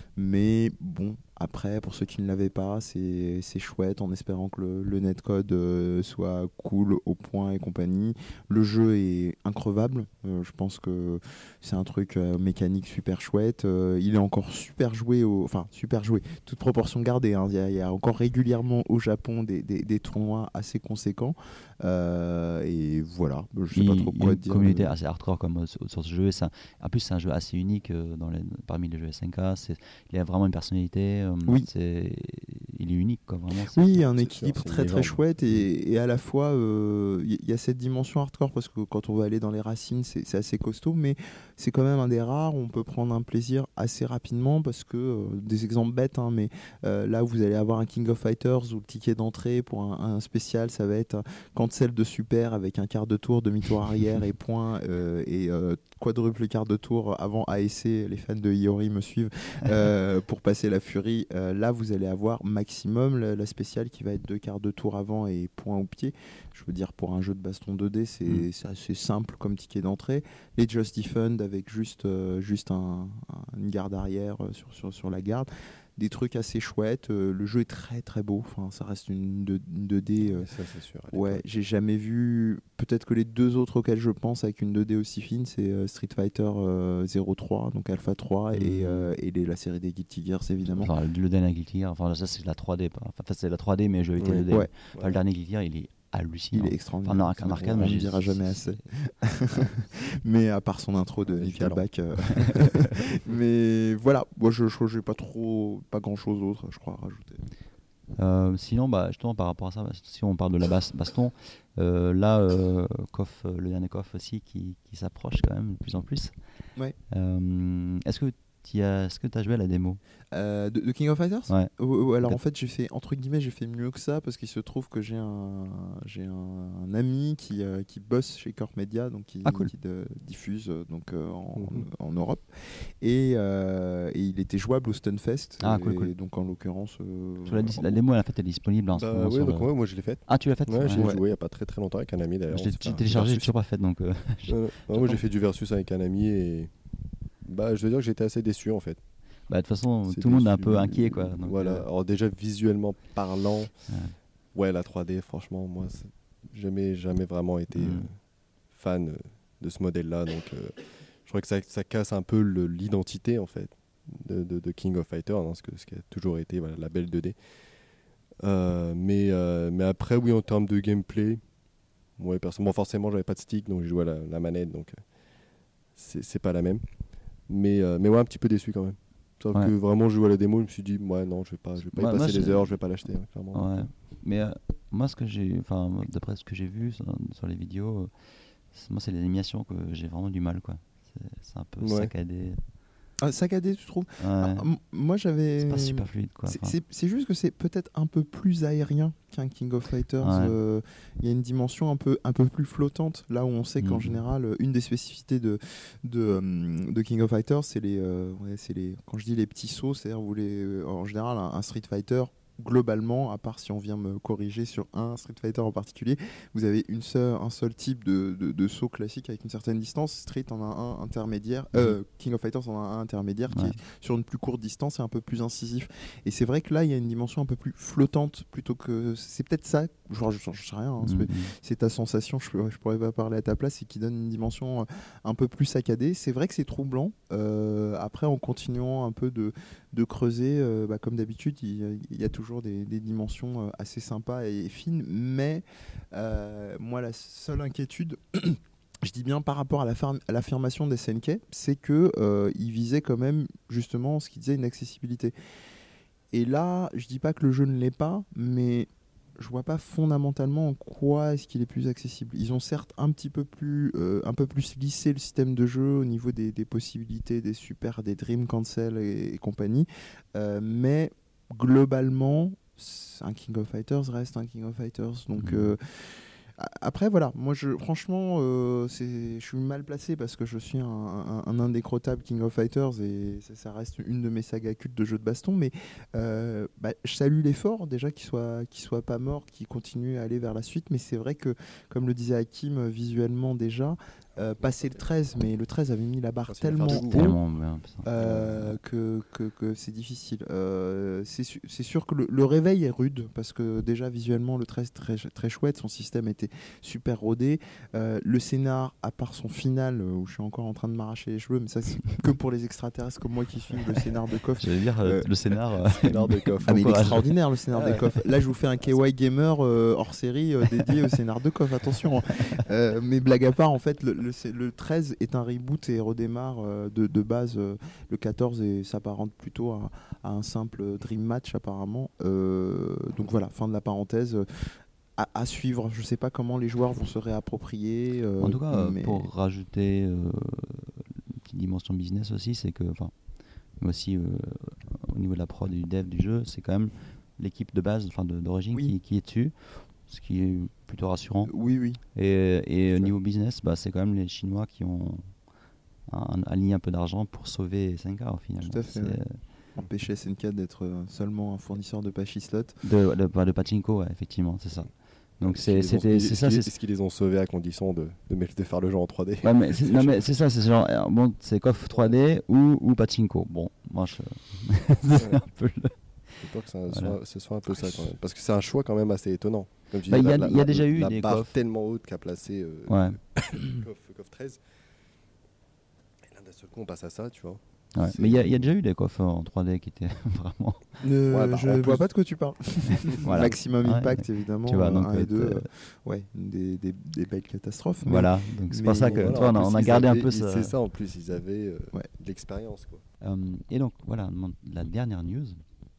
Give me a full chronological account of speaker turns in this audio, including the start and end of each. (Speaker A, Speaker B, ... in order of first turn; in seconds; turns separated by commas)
Speaker A: 0.1-24.9, Speaker B: 23.7-34.0, Speaker A: 33.7-80.5, Speaker C: 34.2-35.2, Speaker C: 80.2-81.4, Speaker A: 81.1-90.9, Speaker B: 88.5-89.2, Speaker B: 90.7-98.9, Speaker C: 94.2-95.2, Speaker A: 96.5-107.5, Speaker C: 97.4-98.0, Speaker C: 101.3-102.4, Speaker B: 108.2-120.0, Speaker A: 120.3-138.0, Speaker B: 121.5-122.4, Speaker B: 129.4-129.7, Speaker C: 131.5-131.9, Speaker B: 135.6-136.1, Speaker B: 137.5-141.1, Speaker C: 138.9-143.5, Speaker A: 140.9-141.2, Speaker B: 142.5-145.2, Speaker C: 144.5-146.8, Speaker C: 147.4-149.0, Speaker B: 149.5-151.9, Speaker C: 150.1-153.8, Speaker B: 153.9-154.2, Speaker C: 154.5-167.9, Speaker B: 157.7-158.1, Speaker C: 168.4-171.5, Speaker C: 172.1-175.2, Speaker C: 175.9-183.9, Speaker B: 181.9-192.6, Speaker C: 191.8-192.1, Speaker A: 193.2-255.3, Speaker B: 194.2-194.7, Speaker B: 195.6-196.8, Speaker B: 200.2-200.6, Speaker B: 203.8-204.2, Speaker B: 223.5-223.8, Speaker B: 231.0-231.5, Speaker A: 256.3-297.4, Speaker B: 275.4-275.8, Speaker C: 294.4-294.7, Speaker C: 296.4-297.4, Speaker B: 296.9-298.7, Speaker A: 298.0-315.3, Speaker B: 314.6-318.2, Speaker C: 315.9-317.2, Speaker A: 316.6-339.3, Speaker B: 338.4-343.1, Speaker B: 343.7-351.6, Speaker A: 351.4-352.0, Speaker B: 352.1-355.4, Speaker C: 352.9-353.2, Speaker B: 356.1-359.4, Speaker A: 358.6-359.2, Speaker A: 359.7-362.8, Speaker B: 362.8-366.7, Speaker C: 365.4-370.3, Speaker B: 369.4-377.2, Speaker C: 376.4-384.6, Speaker A: 377.7-378.0, Speaker B: 380.1-381.6, Speaker B: 382.9-383.2, Speaker C: 386.2-388.7, Speaker B: 387.9-391.0, Speaker A: 391.0-399.4, Speaker C: 391.3-392.1, Speaker C: 393.1-393.4, Speaker B: 393.1-395.7, Speaker B: 398.0-400.7, Speaker C: 399.0-403.0, Speaker B: 403.2-405.6